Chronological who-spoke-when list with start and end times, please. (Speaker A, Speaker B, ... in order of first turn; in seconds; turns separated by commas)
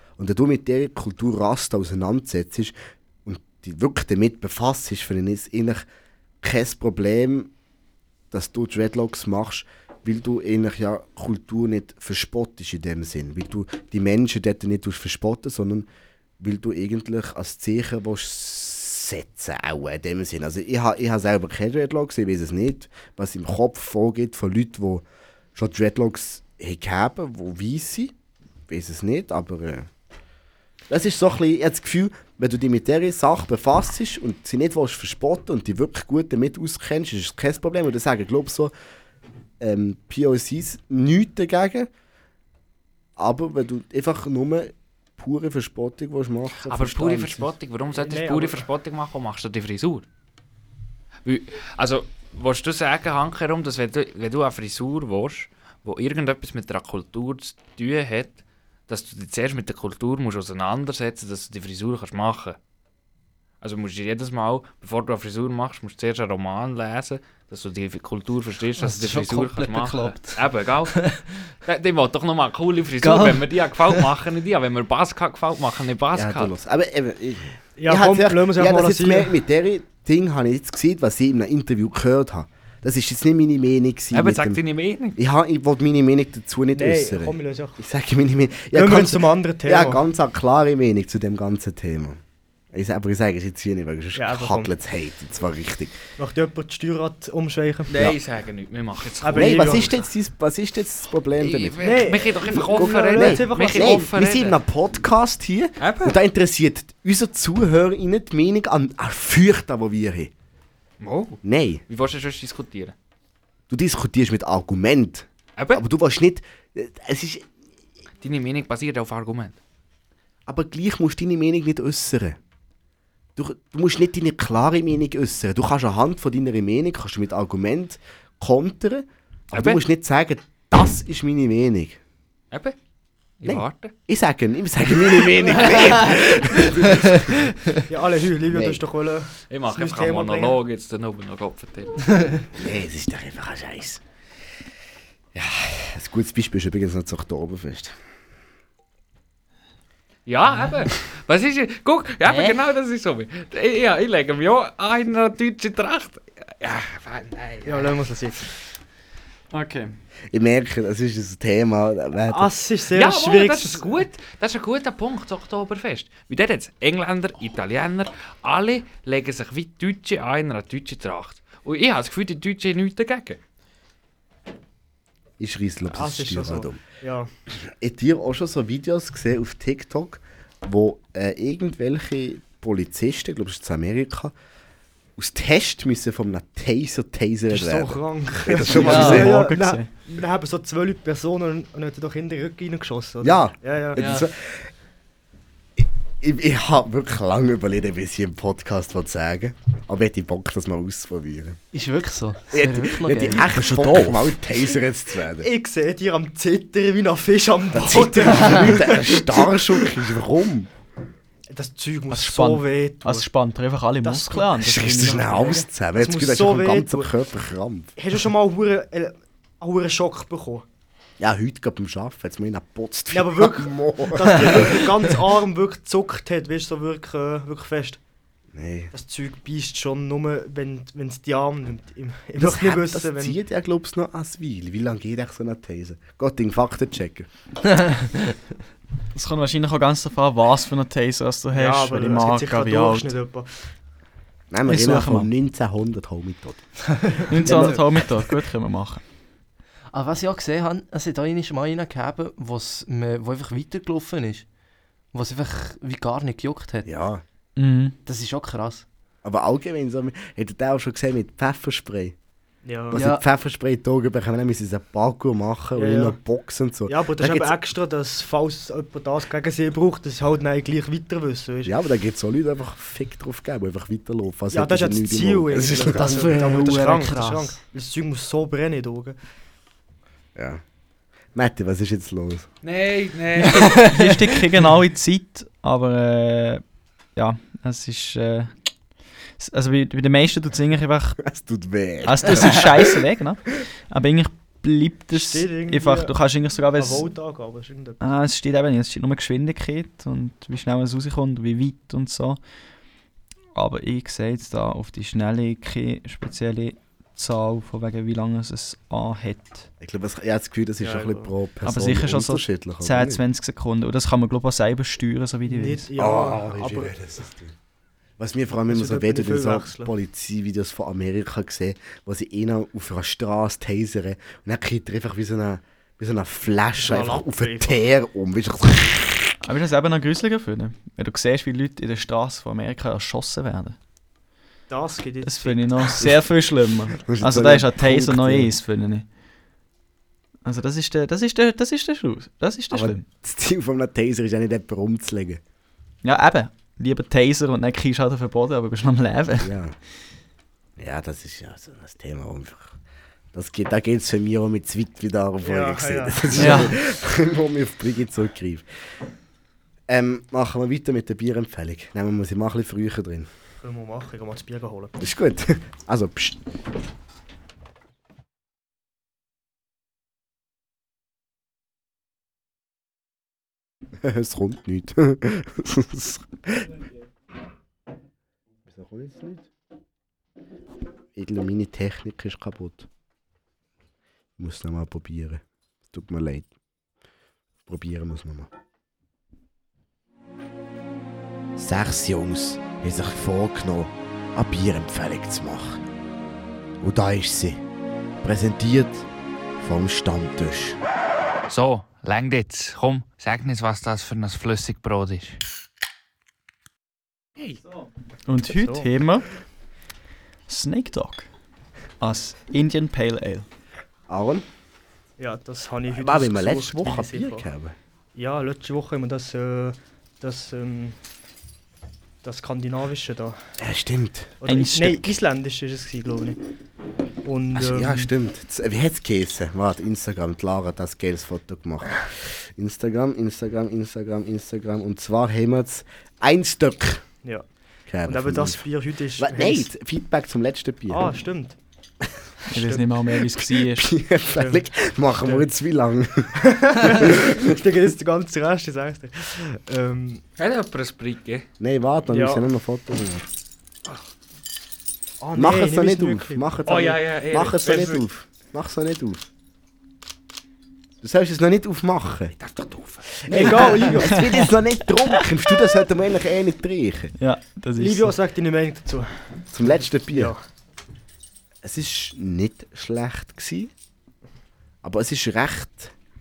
Speaker A: 0.2-5.8, Speaker A: 6.4-7.5, Speaker A: 8.3-15.9, Speaker A: 16.4-25.0, Speaker A: 25.5-28.1, Speaker A: 28.7-29.9, Speaker A: 30.9-38.7, Speaker A: 39.6-41.9, Speaker A: 43.2-47.5, Speaker B: 46.7-50.0, Speaker C: 47.9-48.7, Speaker B: 51.2-62.6, Speaker B: 63.6-71.1, Speaker D: 68.8-71.2, Speaker B: 71.6-76.5, Speaker D: 73.0-74.0, Speaker A: 76.1-84.6, Speaker C: 77.8-79.3, Speaker B: 84.1-85.2, Speaker A: 85.2-92.2, Speaker C: 86.7-87.8, Speaker C: 88.7-90.0, Speaker A: 92.7-96.0, Speaker C: 94.1-94.7, Speaker C: 96.2-97.9, Speaker B: 97.9-100.0, Speaker C: 99.2-99.9, Speaker A: 99.3-110.3, Speaker B: 101.4-104.5, Speaker C: 101.8-104.1, Speaker B: 105.8-106.2, Speaker B: 111.0-112.9, Speaker A: 111.4-111.8, Speaker A: 113.7-117.5, Speaker B: 115.6-115.8, Speaker B: 118.2-119.6, Speaker A: 120.5-122.4, Speaker A: 123.3-132.0, Speaker B: 129.5-129.8, Speaker B: 133.4-133.9, Speaker A: 133.4-137.5, Speaker C: 137.9-140.6, Speaker A: 138.5-138.8, Speaker B: 139.5-142.2, Speaker A: 142.5-144.0, Speaker A: 145.3-147.9, Speaker B: 150.2-158.0, Speaker C: 157.7-158.4, Speaker E: 159.5-159.9, Speaker A: 160.3-162.5, Speaker C: 162.3-163.9, Speaker B: 162.9-173.4, Speaker A: 175.4-176.8, Speaker C: 175.9-177.3, Speaker A: 177.5-184.3, Speaker A: 185.2-189.5, Speaker C: 187.5-194.0, Speaker D: 188.8-189.3, Speaker E: 188.8-189.9, Speaker A: 193.2-194.7, Speaker D: 193.9-194.2, Speaker A: 195.8-201.6, Speaker D: 201.7-204.3, Speaker A: 202.5-205.5, Speaker C: 205.4-209.5, Speaker A: 207.7-210.7, Speaker C: 211.5-213.3, Speaker E: 212.1-215.6, Speaker C: 214.0-217.1, Speaker A: 214.6-217.9, Speaker C: 218.0-220.6, Speaker A: 221.2-224.8, Speaker C: 223.1-228.0, Speaker A: 228.5-228.9, Speaker C: 228.9-233.3, Speaker A: 232.4-237.3, Speaker D: 237.7-238.3, Speaker E: 239.1-243.1, Speaker C: 241.5-243.7, Speaker A: 244.5-246.7, Speaker E: 244.7-245.3, Speaker D: 247.0-247.7, Speaker E: 247.3-249.0, Speaker A: 247.4-247.9, Speaker D: 249.9-254.4, Speaker D: 255.1-256.9, Speaker A: 256.9-257.2, Speaker E: 257.6-257.9, Speaker D: 258.1-258.9, Speaker A: 259.2-262.1, Speaker C: 262.6-262.9, Speaker A: 262.9-267.6, Speaker D: 262.9-263.2, Speaker C: 265.8-266.2, Speaker C: 266.9-271.7, Speaker A: 271.6-276.4, Speaker C: 274.5-279.2, Speaker D: 275.9-277.6, Speaker A: 280.4-280.6, Speaker A: 281.3-282.5, Speaker B: 282.6-283.8, Speaker D: 283.5-284.0, Speaker E: 283.8-286.6, Speaker E: 287.1-288.5, Speaker E: 289.4-291.2, Speaker A: 291.2-292.9, Speaker E: 292.0-297.0, Speaker C: 295.1-296.1, Speaker C: 296.8-298.0, Speaker E: 298.0-302.4, Speaker E: 303.5-309.7, Speaker A: 309.8-313.2, Speaker C: 310.8-311.3, Speaker E: 311.6-315.9, Speaker C: 315.4-316.9, Speaker A: 316.0-317.5, Speaker A: 318.2-329.3, Speaker C: 318.7-319.9, Speaker C: 326.8-327.8, Speaker E: 329.4-333.8, Speaker C: 334.7-335.6, Speaker E: 335.2-339.0, Speaker A: 337.0-338.5, Speaker E: 340.4-343.0, Speaker A: 342.7-345.4, Speaker E: 346.0-349.5, Speaker A: 349.4-349.8, Speaker A: 350.8-352.8, Speaker A: 353.3-358.6, Speaker C: 355.4-356.7, Speaker E: 356.4-356.7, Speaker A: 359.9-363.3, Speaker C: 363.6-364.9, Speaker A: 365.0-366.4, Speaker A: 374.0-376.7, Speaker A: 378.7-379.5, Speaker A: 381.1-382.9, Speaker A: 384.4-386.5, Speaker A: 387.6-388.5, Speaker A: 391.6-395.8, Speaker A: 396.8-397.6, Speaker A: 398.2-399.1, Speaker A: 399.6-400.8, Speaker B: 401.5-405.4, Speaker E: 408.2-409.2, Speaker C: 408.5-408.9, Speaker E: 410.5-411.3, Speaker E: 412.0-413.4, Speaker A: 414.1-414.4, Speaker C: 415.2-417.4, Speaker A: 415.9-417.7, Speaker C: 418.1-421.0, Speaker C: 422.2-423.4, Speaker A: 423.6-424.3, Speaker C: 424.4-426.4, Speaker E: 424.4-425.1, Speaker C: 427.2-428.1, Speaker A: 427.5-437.0, Speaker A: 437.9-438.6, Speaker C: 438.1-439.7, Speaker A: 439.2-441.1, Speaker C: 440.9-441.6, Speaker E: 442.5-443.9, Speaker C: 442.5-442.9, Speaker A: 443.5-447.4, Speaker C: 444.4-444.6, Speaker C: 445.2-445.5, Speaker C: 446.4-450.2, Speaker B: 450.4-451.4, Speaker A: 451.6-453.3, Speaker C: 452.1-452.4, Speaker C: 455.2-456.4, Speaker A: 455.3-459.2, Speaker B: 456.6-458.0, Speaker A: 461.0-462.3, Speaker B: 462.4-463.7, Speaker A: 463.2-467.1, Speaker C: 463.3-464.4, Speaker E: 467.2-468.1, Speaker C: 467.8-469.2, Speaker A: 469.5-470.3, Speaker C: 470.1-470.4, Speaker A: 471.6-473.7, Speaker A: 474.8-475.9